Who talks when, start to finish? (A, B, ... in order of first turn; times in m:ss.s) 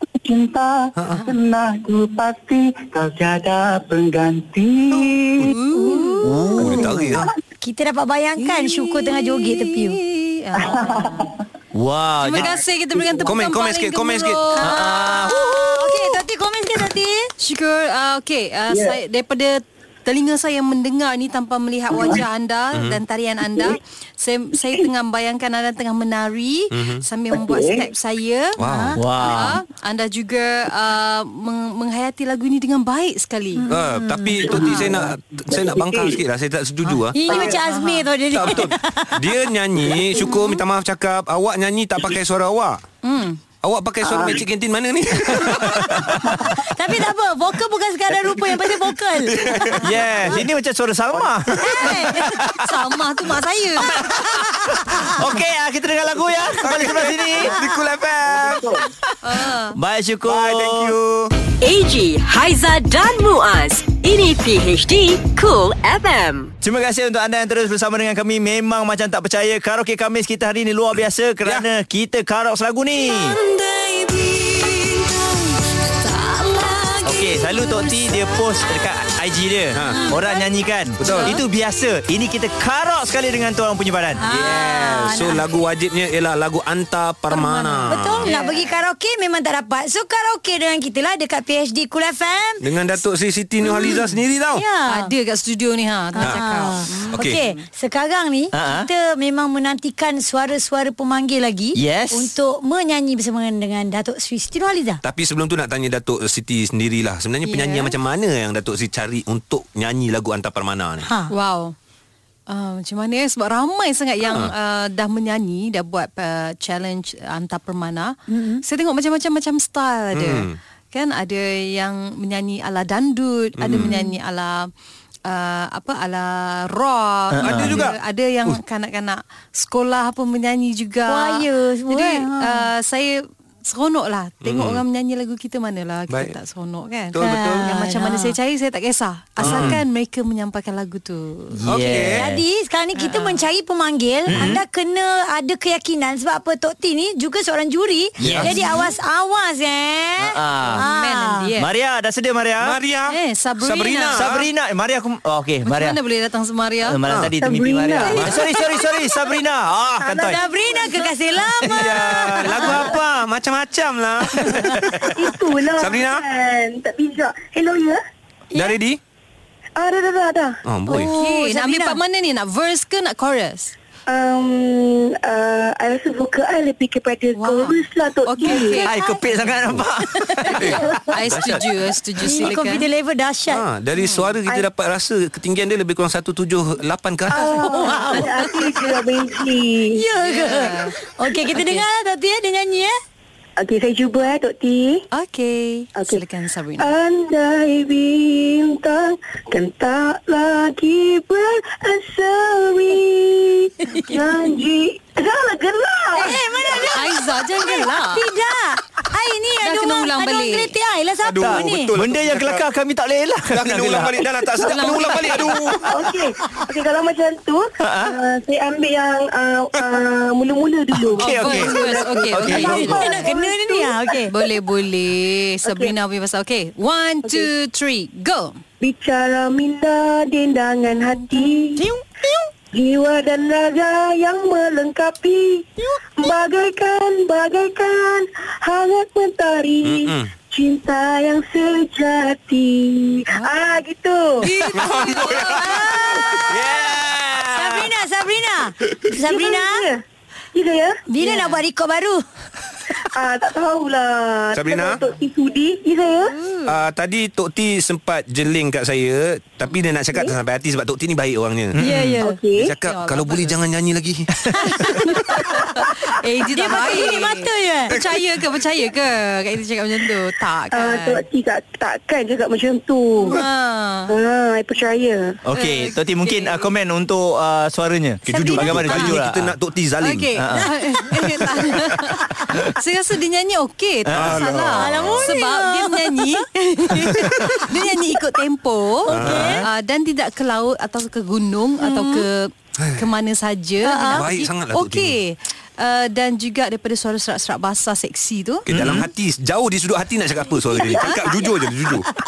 0:00.1-0:05.5 A
0:01.0-0:01.2 B
0:01.1-0:01.3 C
0:05.5-0:06.6 C
0:05.6-0:06.7 D
0:06.2-0:07.2 E
0:06.5-0:07.3 B
0:07.6-0:10.0 D
0:08.4-0:11.3 C
0:10.6-0:11.3 A
0:11.7-0:12.6 E
0:12.2-0:14.7 C
0:13.2-0:14.4 B
0:14.6-0:16.1 E
0:14.6-0:17.3 D
0:17.4-0:28.6 C
0:21.9-0:22.2 A
0:22.7-0:23.0 B
0:26.7-0:27.0 B
0:27.3-0:27.9 A
0:28.6-0:29.0 B
0:28.6-0:29.0 D
0:29.0-0:29.6 E
0:29.2-0:33.6 C
0:33.6-0:34.8 D
0:33.7-0:37.6 B
0:34.4-0:36.2 A
0:37.1-0:39.2 D
0:37.2-0:38.6 C
0:38.3-0:42.8 B
0:40.1-0:40.6 D
0:43.0-0:43.4 C
0:43.6-0:46.1 B
0:44.0-0:44.4 A
0:46.4-0:49.7 D
0:49.3-0:49.8 B
0:49.8-0:52.7 E
0:51.6-0:52.3 D
0:51.8-0:54.0 C
0:53.8-0:57.5 E
0:54.3-0:55.1 D
0:56.3-0:58.9 B
0:59.2-0:59.8 C
0:59.4-1:01.0 E
1:00.2-1:01.3 B
1:01.6-1:06.5 F
1:06.6-1:13.4 E
1:13.3-1:15.2 F
1:16.0-1:18.1 D
1:17.0-1:24.2 E
1:19.7-1:20.1 B
1:19.9-1:20.5 D
1:21.0-1:21.4 B
1:21.1-1:21.3 D
1:24.2-1:25.4 D
1:24.3-1:28.3 B
1:27.3-1:32.6 D
1:28.2-1:28.8 C
1:32.6-1:34.6 B
1:33.6-1:34.2 C
1:34.5-1:35.1 D
1:34.9-1:37.6 C
1:36.2-1:45.0 D
1:38.5-1:38.9 E
1:41.8-1:42.3 E
1:45.0-1:51.1 B
1:47.4-1:48.0 C
1:51.0-1:51.3 D
1:51.3-1:51.8 C
1:52.5-2:04.7 C
1:54.2-1:54.5 B
1:58.3-1:58.6 D
2:00.1-2:00.6 B
2:03.6-2:03.9 B
2:03.8-2:04.2 D
2:05.2-2:21.6 C
2:07.3-2:07.8 E
2:07.4-2:08.6 B
2:11.1-2:12.7 D
2:14.4-2:14.8 B
2:16.1-2:16.4 B
2:17.1-2:17.6 B
2:17.2-2:18.3 D
2:19.4-2:19.8 B
2:19.4-2:19.8 E
2:21.5-2:22.4 E
2:21.6-2:22.2 B
2:22.0-2:31.4 D
2:23.0-2:23.4 C
2:24.3-2:24.6 E
2:28.2-2:28.6 E
2:28.2-2:28.5 B
2:30.2-2:30.8 E
2:30.6-2:31.7 C
2:31.6-2:32.8 E
2:32.6-2:34.4 B
2:33.1-2:34.3 C
2:34.1-2:36.0 E
2:35.6-2:37.0 C
2:36.8-2:40.4 E
2:37.1-2:37.3 B
2:37.4-2:39.1 G
2:40.0-2:41.1 G
2:40.2-2:42.8 D
2:41.6-2:42.7 E
2:41.6-2:46.2 B
2:44.4-2:44.8 D
2:45.0-2:48.0 G
2:48.5-2:49.0 B
2:49.8-2:50.6 G
2:50.6-2:51.1 B
2:50.9-2:52.0 D
2:50.9-2:53.7 C
2:54.1-2:58.9 G
2:57.4-2:58.9 C
2:58.5-2:59.2 D
2:58.8-3:00.7 E
3:00.2-3:00.6 D
3:00.4-3:02.9 C
3:00.5-3:01.9 B
3:02.2-3:03.6 D
3:03.5-3:07.6 B
3:03.9-3:04.3 C
3:07.3-3:10.0 G
3:07.3-3:09.0 C
3:07.6-3:08.4 D
3:09.9-3:12.9 D
3:10.1-3:11.8 C
3:13.6-3:15.0 G
3:15.1-3:16.9 C
3:15.9-3:16.2 G
3:16.8-3:26.4 G
3:26.1-3:31.9 D
3:26.9-3:28.2 C
3:29.6-3:30.7 C
3:31.2-3:32.6 B
3:31.4-3:34.5 E
3:33.5-3:35.8 B
3:34.6-3:35.6 C
3:35.1-3:35.5 E
3:35.8-3:44.5 G
3:37.8-3:38.1 E
3:41.2-3:43.3 C
3:41.2-3:41.8 E
3:42.3-3:42.9 E
3:42.5-3:44.3 D
3:44.3-3:48.6 C
3:45.6-3:45.9 G
3:48.8-3:51.8 G
3:52.7-3:55.7 G
3:56.2-4:04.5 G
3:59.8-4:00.3 B
4:04.6-4:05.9 C
4:04.7-4:07.3 B
4:05.1-4:06.6 D
4:06.5-4:07.9 E
4:07.5-4:09.8 D
4:09.2-4:10.0 G
4:10.5-4:11.0 G
4:11.1-4:12.2 D
4:13.0-4:16.3 G
4:14.5-4:15.0 B
4:16.3-4:16.7 C
4:16.6-4:21.8 B
4:21.8-4:22.2 E
4:21.8-4:22.4 D
4:22.2-4:22.7 G
4:22.6-4:24.3 B
4:22.8-4:23.6 C
4:24.6-4:25.1 D
4:24.7-4:31.2 C
4:26.5-4:27.9 D
4:27.9-4:28.2 B
4:30.7-4:33.4 G
4:33.2-4:34.1 C
4:34.1-4:35.4 G
4:35.4-4:39.5 E
4:35.6-4:36.7 C
4:38.2-4:40.3 B
4:38.3-4:39.2 C
4:40.0-4:58.7 C
4:40.4-4:40.7 E
4:40.5-4:41.4 D
4:44.0-4:44.4 E
4:44.1-4:45.3 B
4:44.7-4:46.4 D
4:49.1-4:49.6 B
4:49.1-4:49.7 E
4:49.1-4:49.6 D
4:51.8-4:52.3 D
4:52.8-4:53.1 B
4:53.8-4:54.3 D
4:54.1-4:55.2 B
4:58.7-5:02.1 B
4:58.7-4:59.1 E
5:00.9-5:01.3 C